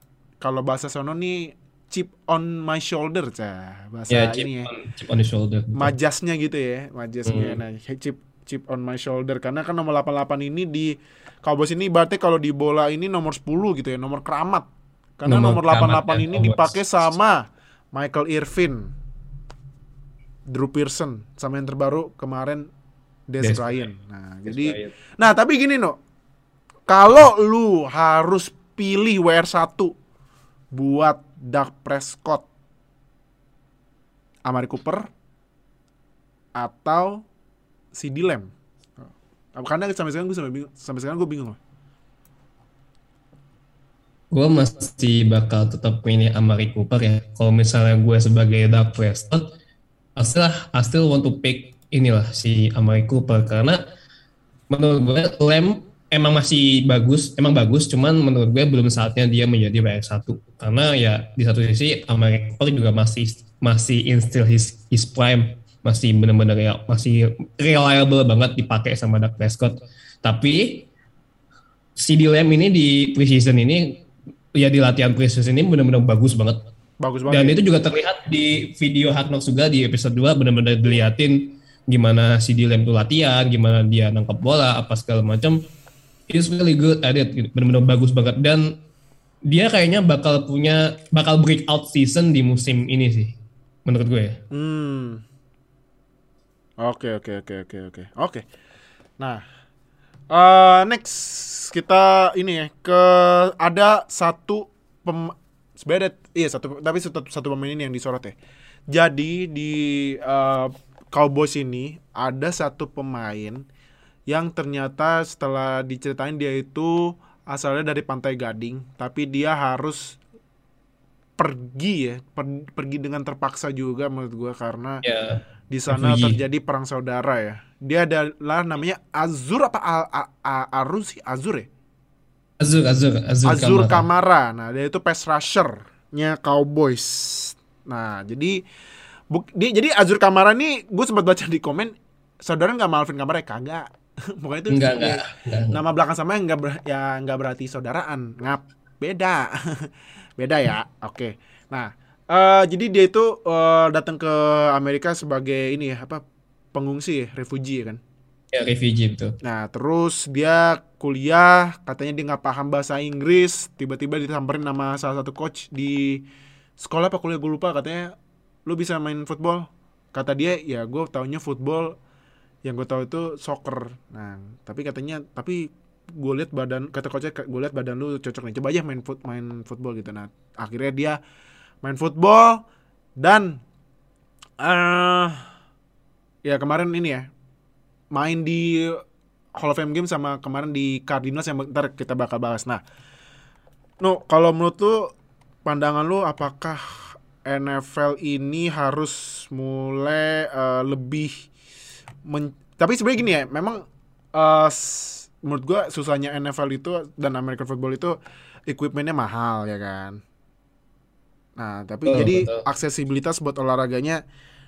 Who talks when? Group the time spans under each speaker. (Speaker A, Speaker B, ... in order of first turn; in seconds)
Speaker A: 0.4-4.7, 5.7-14.7, 15.2-18.9, 20.5-22.7, 23.3-25.9, 26.9-29.9, 30.7-32.5, 34.5-35.1, 36.5-37.2, 37.9-41.6, 77.0-77.6, 94.5-95.2, 96.8-98.4, 100.3-108.3, 108.9-113.6, 114.3-120.2, 121.4-125.0, 125.7-131.7, 133.4-138.6, 139.3-156.2, 156.7-158.0, 159.4-166.2, 166.8-168.1, 168.7-171.9, 172.6-181.2, 181.8-182.6, 183.2-183.6, 184.6-185.4, 186.4-187.3, 188.1-189.0, 189.6-192.8, 194.0-195.1, 195.6-201.4, 202.2-203.8, 204.3-208.1, 208.7-210.2, 211.6-214.2
Speaker B: 4.1-5.9, 7.2-7.6, 15.3-16.8, 23.4-23.8, 24.4-24.9, 44.3-49.4, 50.1-53.8, 54.7-70.9, 72.0-73.9, 74.5-76.6, 77.3-85.6, 86.3-88.7, 89.5-93.3, 93.8-94.4, 125.0-126.4, 132.6-134.0, 144.7-145.8, 158.5-159.3, 212.1-212.6